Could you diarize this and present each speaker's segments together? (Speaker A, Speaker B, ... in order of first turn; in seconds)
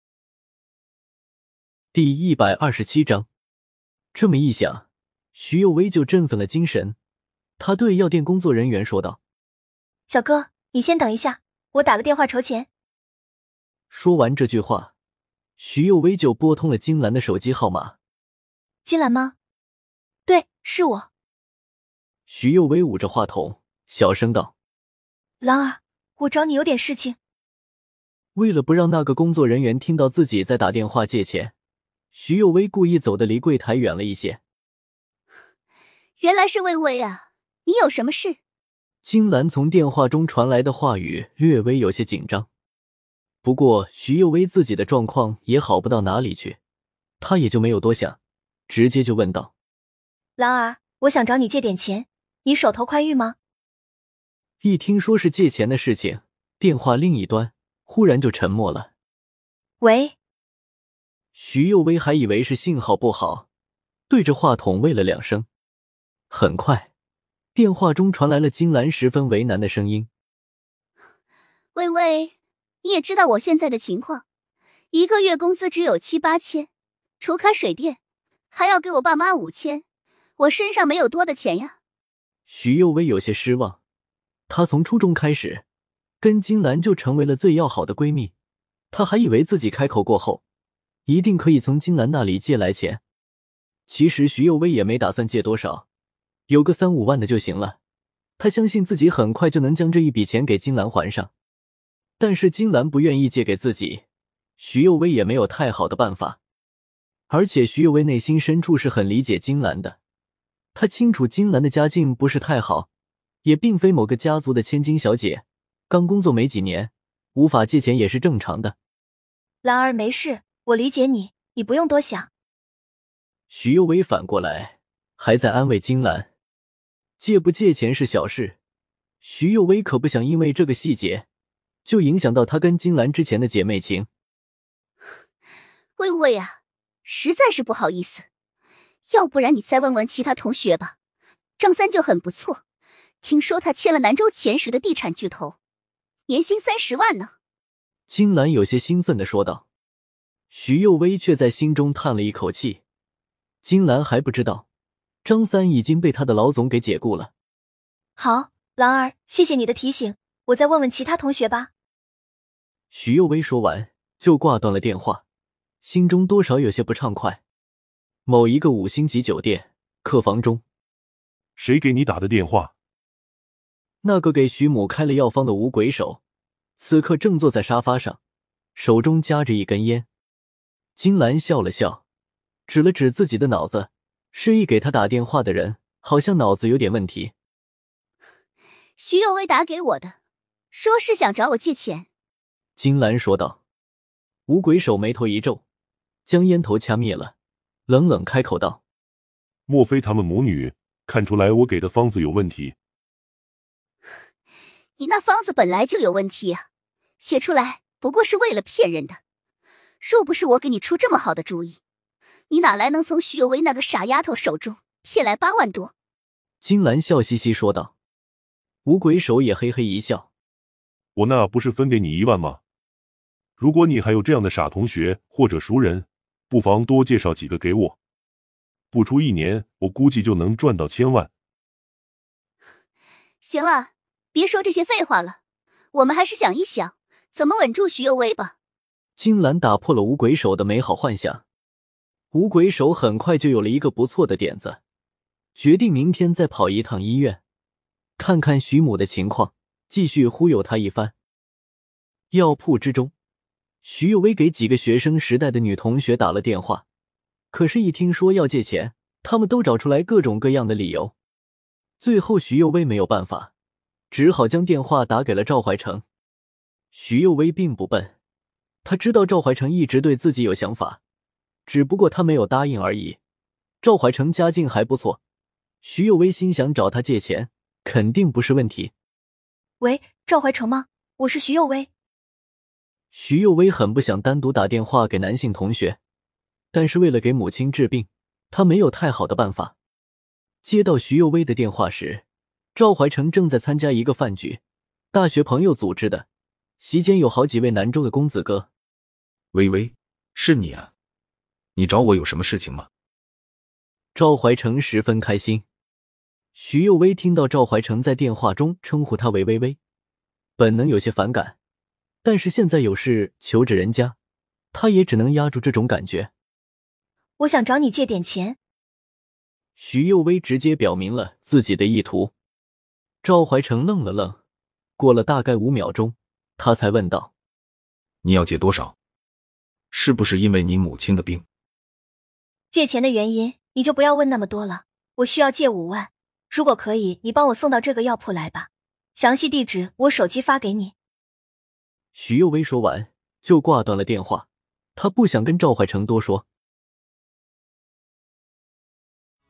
Speaker A: 1.9-3.3, 4.1-7.0, 7.6-9.2, 13.9-14.9, 15.6-17.9, 22.3-24.5, 28.4-31.5, 32.1-34.4, 39.0-42.5, 43.4-46.6, 47.2-48.2, 48.7-49.5, 54.6-58.9, 61.3-63.5, 64.1-65.5, 66.3-66.9, 67.5-70.1, 82.5-83.8, 84.5-85.6, 86.2-88.3, 88.9-90.4, 91.1-93.0, 93.9-95.8, 96.5-97.8, 98.4-101.3, 102.2-104.0, 104.6-106.4, 107.3-110.0, 110.7-112.9, 113.4-118.7, 123.5-126.3, 127.2-128.6, 129.2-131.2, 131.8-134.1, 148.1-149.6, 150.5-152.8, 153.6-154.6, 155.2-157.3, 162.9-165.2, 165.8-167.4, 168.3-170.6, 174.0-176.2, 176.8-178.2, 178.8-180.1, 181.0-182.0, 182.7-187.3, 192.8-193.6, 194.5-195.6, 196.3-197.3, 197.9-198.8, 216.6-217.9, 218.8-220.3, 239.2-241.4, 242.3-244.8, 245.6-247.4, 248.2-251.1, 252.3-253.1, 253.8-256.8, 257.5-261.1, 262.0-263.5, 264.1-266.0, 266.9-268.1, 268.8-271.0, 271.7-273.2, 273.8-275.2, 275.8-278.9, 283.1-286.0, 286.7-289.7, 290.6-292.2, 292.8-294.6, 295.1-296.2, 296.8-298.7, 304.1-305.6, 306.5-309.8, 310.6-311.6, 312.2-314.1, 314.7-316.3, 319.8-322.3, 323.2-324.4, 325.0-327.3, 342.1-346.4
Speaker B: 10.1-12.7, 18.8-19.3, 20.2-21.1, 25.4-27.2, 50.4-53.4, 59.8-60.1, 119.6-122.3, 158.2-161.7, 279.8-281.9, 317.4-318.6, 332.7-340.9
Speaker C: 36.2-38.4, 71.7-74.2, 74.9-78.0, 78.5-79.8, 80.4-81.7, 136.0-138.2, 139.1-140.9, 141.6-142.6, 143.2-145.6, 146.3-147.3, 189.0-190.1, 190.7-192.1, 205.0-206.7, 207.2-209.2, 210.0-211.8, 212.5-215.9, 233.4-235.4, 235.9-238.5
Speaker D: 171.6-172.7, 199.7-202.7, 221.2-222.6, 223.6-228.0, 228.9-231.3
Speaker E: 299.5-300.9, 301.8-302.9, 328.2-328.9, 329.9-331.4